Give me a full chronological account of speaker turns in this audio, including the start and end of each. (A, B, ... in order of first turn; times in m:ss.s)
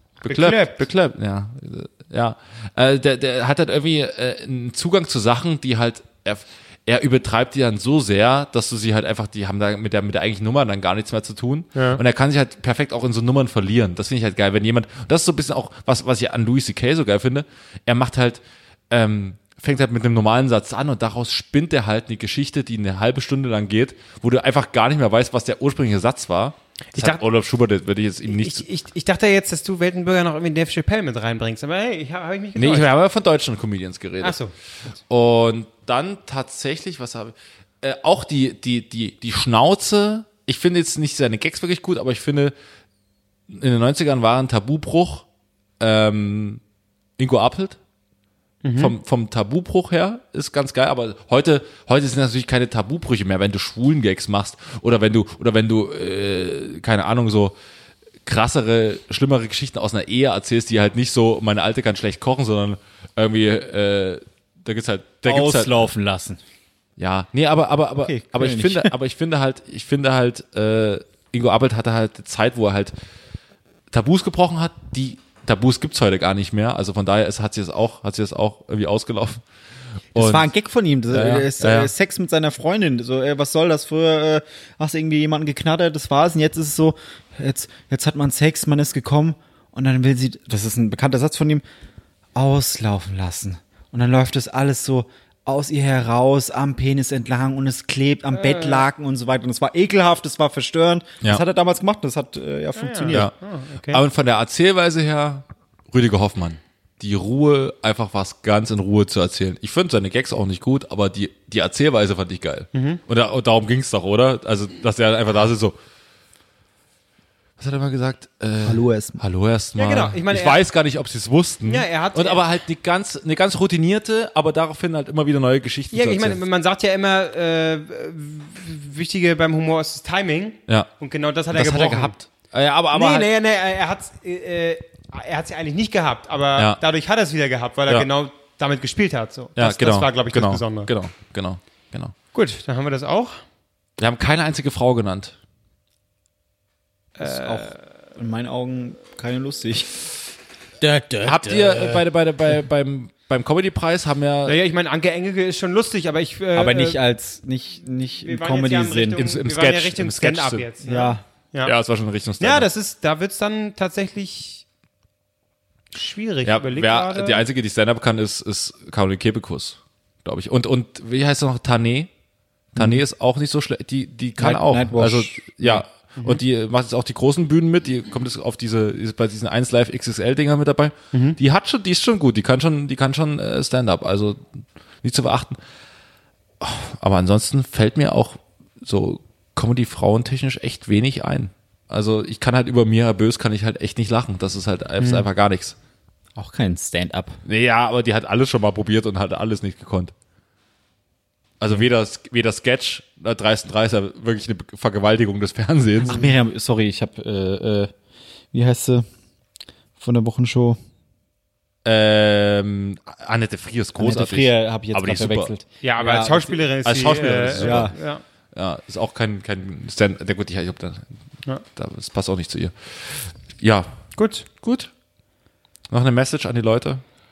0:00.2-0:00.8 A
0:00.2-0:28.6 B
0:11.7-0:12.0 A
0:26.9-0:27.2 A
0:28.2-0:32.9 A
0:32.6-0:34.4 B
0:34.2-0:34.5 A
0:35.1-0:42.5 B
0:43.5-0:45.2 B
0:45.8-0:46.6 B
0:47.2-0:47.8 B
0:48.6-0:48.9 A
0:48.8-0:57.5 B
0:58.2-1:05.8 B
1:05.2-1:06.4 C
1:07.0-1:12.9 B
1:08.0-1:08.9 C
1:13.9-1:19.4 B
1:20.1-1:20.5 B
1:20.2-1:31.6 C
1:21.1-1:21.9 B
1:32.3-1:43.3 C
1:38.3-1:38.8 A
1:42.8-1:44.0 A
1:43.9-1:55.8 B
1:52.7-1:53.0 A
1:57.6-2:06.4 B
1:58.6-1:59.2 C
1:59.8-2:00.6 A
2:01.6-2:02.4 A
2:05.9-2:12.2 A
2:11.5-2:13.3 B
2:12.9-2:20.9 A
2:19.6-2:22.1 B
2:22.3-2:23.4 A
2:24.0-2:25.3 B
2:27.2-2:27.7 A
2:27.2-2:29.9 C
2:30.8-2:32.1 C
2:31.2-2:34.6 B
2:34.4-2:37.0 A
2:36.6-2:39.3 C
2:38.2-2:41.7 A
2:39.2-2:40.7 B
2:40.8-2:41.2 C
2:41.6-2:42.7 B
2:42.4-2:44.6 A
2:45.9-2:47.4 A
2:46.4-2:52.1 B
2:52.7-3:04.4 B
2:52.8-2:53.0 C
2:54.4-2:55.8 C
3:01.1-3:01.4 A
3:05.0-3:05.6 B
3:06.6-3:15.8 B
3:15.0-3:15.2 A
3:16.4-3:17.4 C
3:17.4-3:20.1 B
3:21.6-3:26.2 B
3:26.0-3:27.9 C
3:28.5-3:29.1 C
3:30.0-3:30.8 C
3:31.8-3:35.5 B
3:34.0-3:36.5 C
3:35.8-3:38.2 A
3:36.8-3:37.9 B
3:37.5-3:37.9 C
3:38.5-3:41.0 B
3:41.8-3:43.9 B
3:44.2-3:44.4 A
3:44.6-3:44.9 B
3:45.9-3:47.0 B